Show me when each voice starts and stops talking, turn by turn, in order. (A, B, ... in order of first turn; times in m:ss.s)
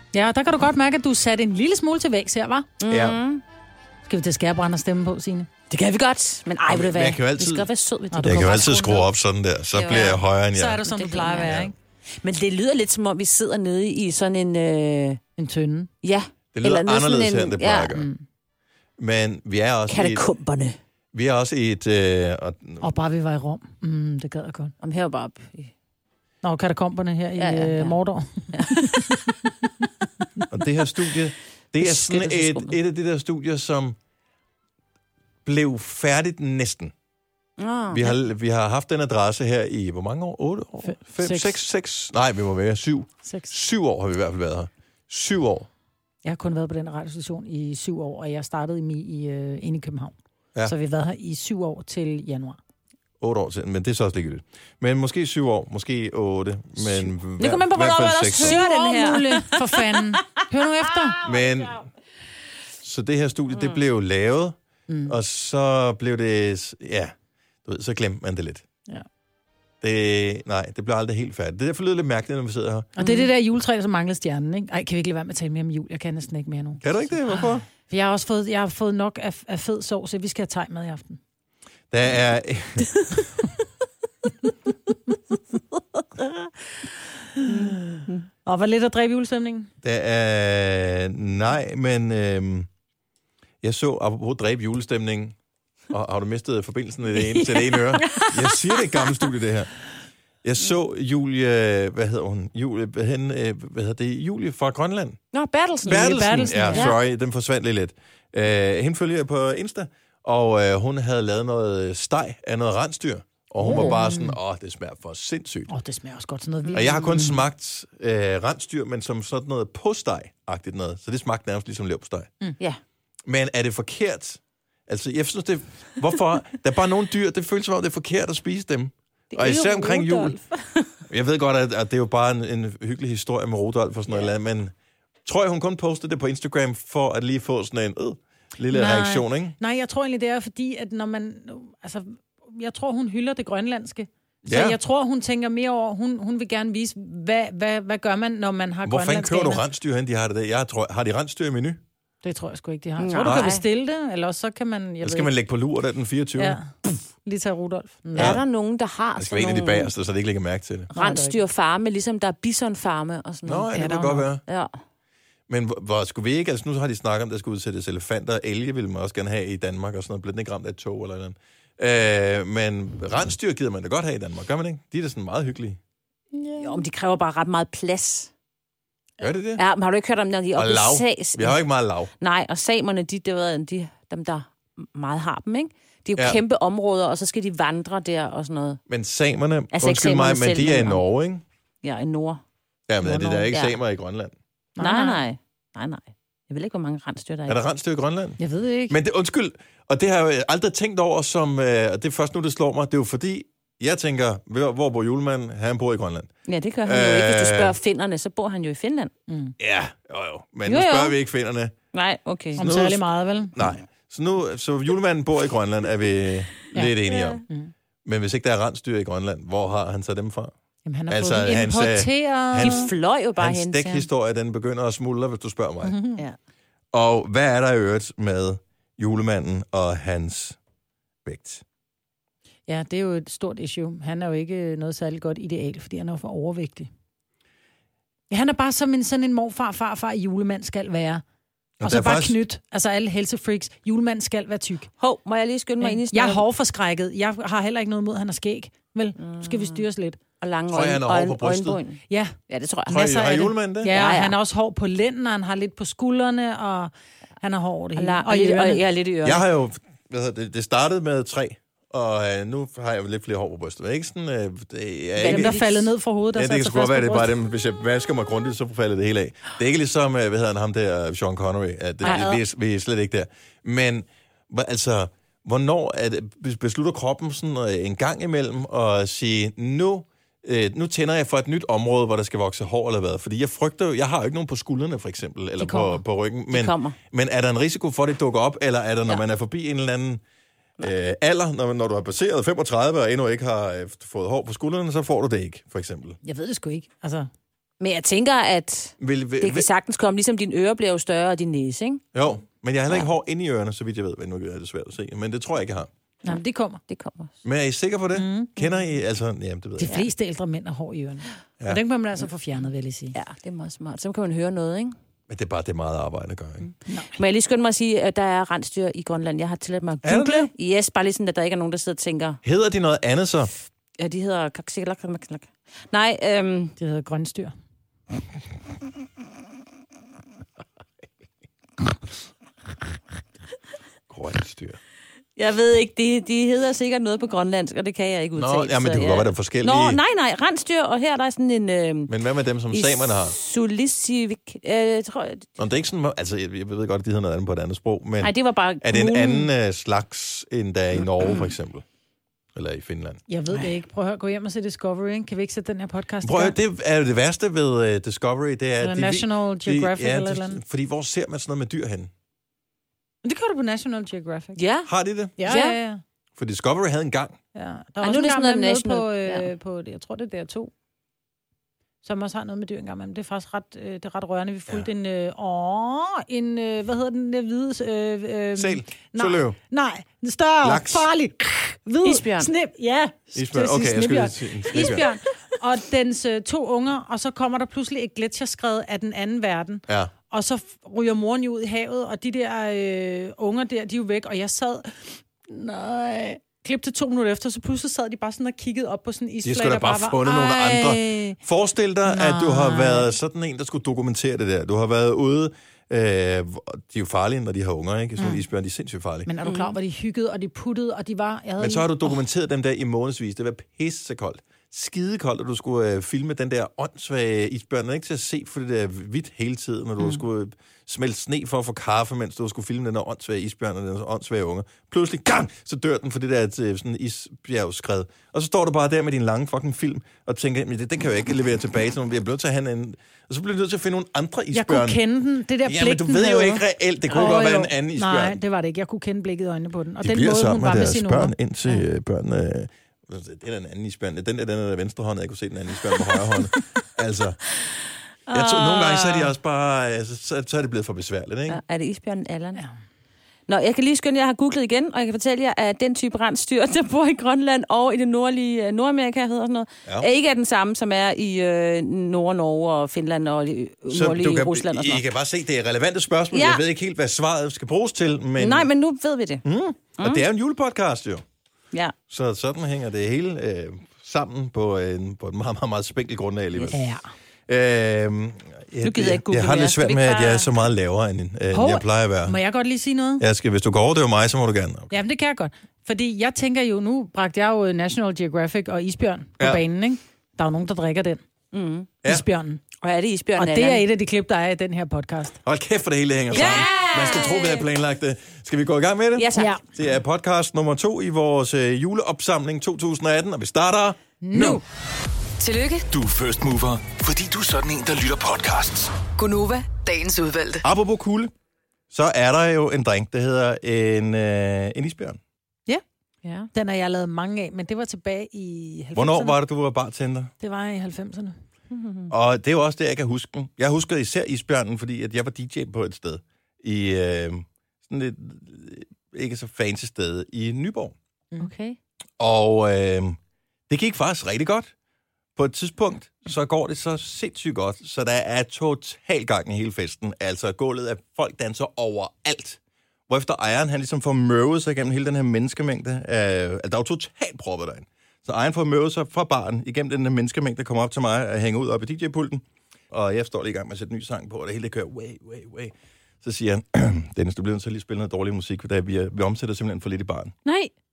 0:00.1-0:02.7 A
0:02.8-0:03.4 B
0:02.9-0:03.2 C
0:04.1-0:05.5 A
0:05.7-0:08.9 B
0:06.7-0:07.7 C
0:08.1-0:09.0 A
0:08.2-0:10.8 C
0:09.8-0:10.2 B
0:09.9-0:11.7 A
0:10.9-0:11.6 B
0:11.4-0:11.7 C
0:12.2-0:15.2 B
0:15.4-0:15.9 A
0:16.0-0:17.9 B
0:16.6-0:18.1 C
0:18.0-0:18.2 A
0:19.0-0:20.2 C
0:19.9-0:20.8 B
0:21.1-0:22.9 C
0:22.8-0:24.7 A
0:24.8-0:25.7 B
0:26.4-0:29.2 A
0:27.4-0:28.0 B
0:28.5-0:29.3 B
0:30.5-0:34.0 C
0:31.8-0:32.8 B
0:35.4-0:36.9 C
0:37.6-0:38.2 B
0:37.9-0:45.7 C
0:40.8-0:41.6 A
0:43.2-0:43.5 A
0:46.2-0:52.6 A
0:53.2-0:58.6 C
0:57.0-1:01.3 B
0:58.4-1:01.2 A
1:01.2-1:01.9 C
1:02.8-1:08.6 C
1:03.5-1:03.8 B
1:04.9-1:05.2 A
1:09.8-1:12.9 C
1:13.0-1:16.8 A
1:13.0-1:13.3 B
1:16.8-1:17.7 C
1:17.9-1:21.2 A
1:21.9-1:22.9 C
1:26.2-1:26.5 B
1:27.4-1:29.7 A
1:27.4-1:28.3 B
1:29.8-1:32.7 C
1:33.6-1:35.4 C
1:35.9-1:39.7 C
1:37.7-1:38.6 B
1:40.4-1:45.2 C
1:45.3-1:46.1 B
1:45.8-1:55.7 C
1:45.9-1:46.9 A
1:46.7-1:47.0 B
1:53.6-1:54.4 A
1:53.7-1:53.9 B
1:55.7-1:57.4 A
1:56.6-1:57.1 B
1:56.8-2:02.3 C
2:03.3-2:10.4 C
2:09.3-2:11.0 B
2:11.1-2:14.7 C
2:15.2-2:19.6 C
2:18.7-2:29.6 A
2:24.5-2:24.8 C
2:28.8-2:31.8 C
2:32.2-2:35.3 A
2:33.0-2:33.6 B
2:35.0-2:37.0 C
2:36.4-2:36.7 A
2:37.2-2:38.3 A
2:38.1-2:39.9 B
2:38.2-2:38.4 C
2:39.2-2:40.9 C
2:40.9-2:41.4 A
2:40.9-2:43.7 B
2:43.4-2:44.4 C
2:43.7-2:44.3 A
2:44.5-2:44.7 B
2:45.5-2:55.8 C
2:56.3-2:56.8 A
2:56.6-2:58.3 B
2:59.2-2:59.6 C
2:59.6-3:01.6 B
3:00.6-3:02.1 C
3:02.2-3:08.8 B
3:08.9-3:11.4 C
3:09.7-3:11.0 B
3:11.8-3:12.4 B
3:12.9-3:14.3 C
3:13.0-3:13.4 A
3:13.5-3:13.8 B
3:14.8-3:15.2 A
3:14.8-3:17.6 B
3:17.5-3:18.4 C
3:18.4-3:18.9 A
3:18.9-3:26.3 C
3:26.5-3:29.1 B
3:26.8-3:27.8 C
3:29.3-3:29.5 A
3:29.6-3:31.8 C
3:30.7-3:31.1 B
3:31.9-3:32.6 B
3:32.6-3:33.7 A
3:32.6-3:33.0 C
3:33.5-3:37.4 C
3:37.5-3:37.7 A
3:38.0-3:40.5 C
3:40.8-3:42.9 A
3:41.1-3:46.0 C
3:42.6-3:44.1 B
3:45.8-3:46.2 A
3:46.9-3:50.6 C
3:51.2-3:51.6 C
3:52.7-3:56.9 A
3:58.3-4:01.2 A
4:01.8-4:02.4 C
4:01.8-4:04.9 A
4:05.0-4:06.4 B
4:05.8-4:10.2 A
4:09.2-4:09.8 B
4:10.4-4:13.3 B
4:10.7-4:11.8 C
4:12.1-4:12.4 A
4:12.9-4:14.0 C
4:12.9-4:18.8 A
4:13.9-4:14.4 B
4:18.0-4:19.4 B
4:19.2-4:25.6 C
4:25.2-4:25.9 B
4:25.2-4:27.3 A
4:26.4-4:50.2 C
4:32.0-4:32.4 A
4:45.6-4:46.0 A
4:46.5-4:47.0 B
4:50.8-4:56.2 C
4:56.2-4:57.3 A
4:57.8-5:02.0 B
4:59.0-4:59.7 C
5:02.1-5:05.9 C
5:06.2-5:06.8 A
5:06.3-5:07.3 B
5:07.4-5:09.9 C
5:08.1-5:08.6 A
5:09.8-5:13.2 A
5:13.2-5:15.0 B
5:15.3-5:16.7 C
5:16.9-5:17.2 A
5:17.2-5:22.4 B
5:20.0-5:20.5 C
5:22.4-5:23.5 C
5:24.0-5:26.8 B
5:26.8-5:27.5 A
5:34.1-5:34.8 C
5:35.4-5:42.1 B
5:38.4-5:40.0 C
5:42.1-5:43.4 C
5:42.7-5:45.5 B
5:45.6-5:51.8 C
5:48.2-5:49.5 B
5:52.6-5:53.2 C
5:53.3-5:56.6 A
5:56.2-6:02.1 C
5:58.8-6:00.6 A
6:03.2-6:04.6 A
6:04.6-6:05.8 B
6:04.9-6:05.4 C
6:05.4-6:06.0 A
6:06.4-6:07.4 C
6:07.6-6:10.7 A
6:08.0-6:09.5 B
6:12.0-6:41.4 A
6:18.6-6:19.6 C
6:20.6-6:21.1 C
6:22.0-6:22.5 B
6:23.4-6:25.1 C
6:39.4-6:49.3 C
6:42.1-6:43.1 A
6:49.3-6:52.1 A
6:49.4-6:49.7 B
6:51.6-7:15.0 C
7:14.5-7:21.3 A
7:15.6-7:18.4 C
7:20.0-7:27.4 C
7:28.3-7:29.3 B
7:28.3-7:31.6 C
7:31.5-7:32.6 B
7:33.5-7:45.0 B
7:43.9-7:48.7 C
7:46.3-7:46.6 B
7:48.4-7:49.4 B
7:49.4-7:51.2 C
7:50.0-7:50.2 B
7:52.1-7:56.8 C
7:56.7-7:57.1 A
7:57.5-8:02.4 C
7:58.8-8:00.5 B
8:01.5-8:03.2 A
8:03.2-8:04.9 C
8:04.9-8:11.2 A
8:11.5-8:11.9 B
8:12.1-8:12.6 A
8:12.8-8:13.8 B
8:13.4-8:15.4 A
8:15.4-8:24.6 C
8:16.3-8:17.6 B
8:16.4-8:17.1 A
8:19.2-8:19.6 B
8:19.4-8:19.6 A
8:24.2-8:24.6 A
8:25.4-8:25.9 D
8:25.9-8:29.0 E
8:29.2-8:30.6 D
8:30.6-8:31.3 C
8:31.9-8:35.2 C
8:36.5-8:39.4 A
8:39.0-8:40.3 C
8:40.4-8:41.4 A
8:41.7-8:42.1 B
8:42.1-8:51.0 C
8:51.4-8:51.8 B
8:52.2-8:53.2 C
8:53.7-8:54.7 C
8:55.4-9:20.4 C